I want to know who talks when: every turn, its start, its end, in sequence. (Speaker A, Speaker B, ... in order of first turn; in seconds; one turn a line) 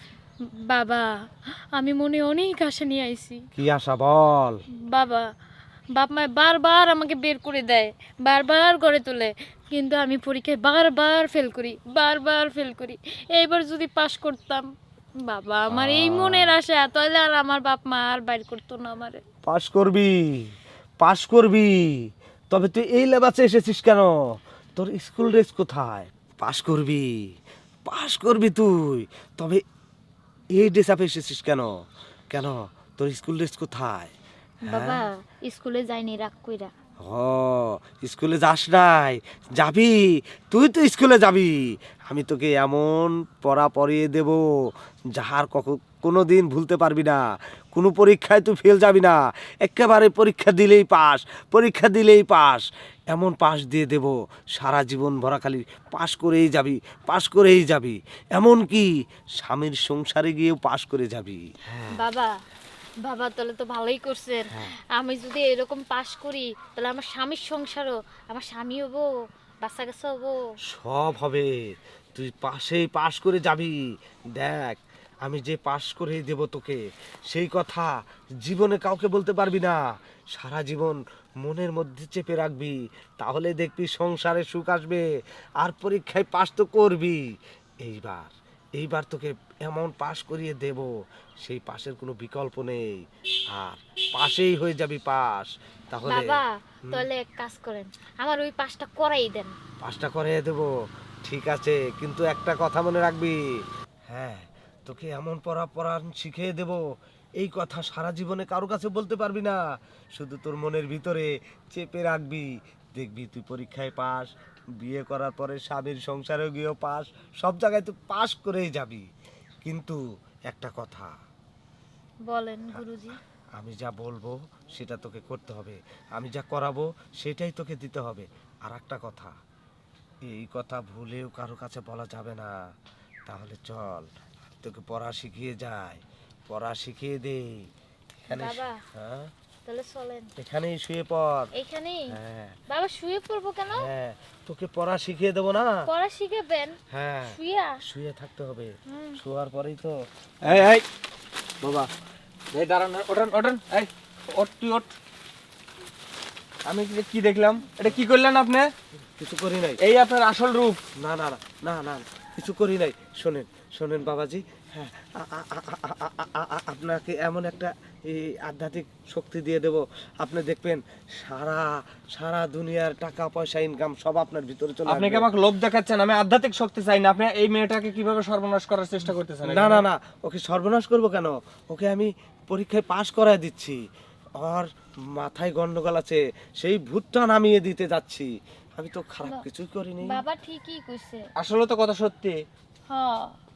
Speaker A: 0.5-1.1
Speaker A: 1.8-3.4
Speaker B: 3.6-4.6
Speaker A: 4.9-5.3
Speaker A: 6.0-14.7
Speaker A: 15.2-19.2
Speaker B: 15.7-16.6
Speaker B: 19.4-20.5
Speaker B: 21.0-21.9
Speaker B: 22.5-24.2
Speaker B: 24.8-27.1
Speaker B: 27.9-29.6
Speaker B: 30.6-31.7
Speaker B: 32.3-34.1
Speaker A: 34.7-36.7
Speaker B: 34.7-35.0
Speaker B: 37.1-40.0
Speaker B: 40.5-41.5
Speaker B: 42.1-44.4
Speaker B: 45.1-47.2
Speaker B: 47.7-62.0
Speaker A: 61.9-62.3
Speaker A: 63.0-69.1
Speaker A: 69.6-70.4
Speaker B: 70.7-71.5
Speaker B: 72.2-73.8
Speaker B: 74.4-77.9
Speaker B: 78.4-79.8
Speaker B: 80.3-85.0
Speaker B: 85.6-87.2
Speaker B: 87.8-90.9
Speaker B: 91.4-93.0
Speaker B: 93.5-97.1
Speaker A: 96.1-99.5
Speaker B: 99.8-100.7
Speaker B: 101.2-103.4
Speaker B: 104.1-106.8
Speaker B: 107.4-109.6
Speaker B: 110.2-119.0
Speaker B: 119.7-121.1
Speaker A: 122.3-123.2
Speaker B: 123.6-129.3
Speaker B: 130.3-132.6
Speaker B: 133.3-134.1
Speaker B: 134.6-137.7
Speaker B: 138.3-139.3
Speaker A: 138.3-138.8
Speaker A: 139.7-140.3
Speaker B: 140.4-141.5
Speaker A: 141.6-142.1
Speaker B: 142.1-142.6
Speaker A: 142.7-143.9
Speaker B: 143.7-145.8
Speaker A: 145.9-147.8
Speaker B: 146.9-150.7
Speaker A: 148.9-149.2
Speaker C: 150.4-150.8
Speaker C: 151.6-151.9
Speaker C: 152.5-154.9
Speaker C: 156.7-158.7
Speaker B: 159.2-159.8
Speaker C: 159.8-160.8
Speaker B: 161.0-175.3
Speaker C: 174.9-179.8
Speaker B: 179.4-183.8
Speaker B: 184.4-190.2
Speaker A: 190.1-191.2
Speaker C: 191.4-192.4
Speaker A: 192.9-193.3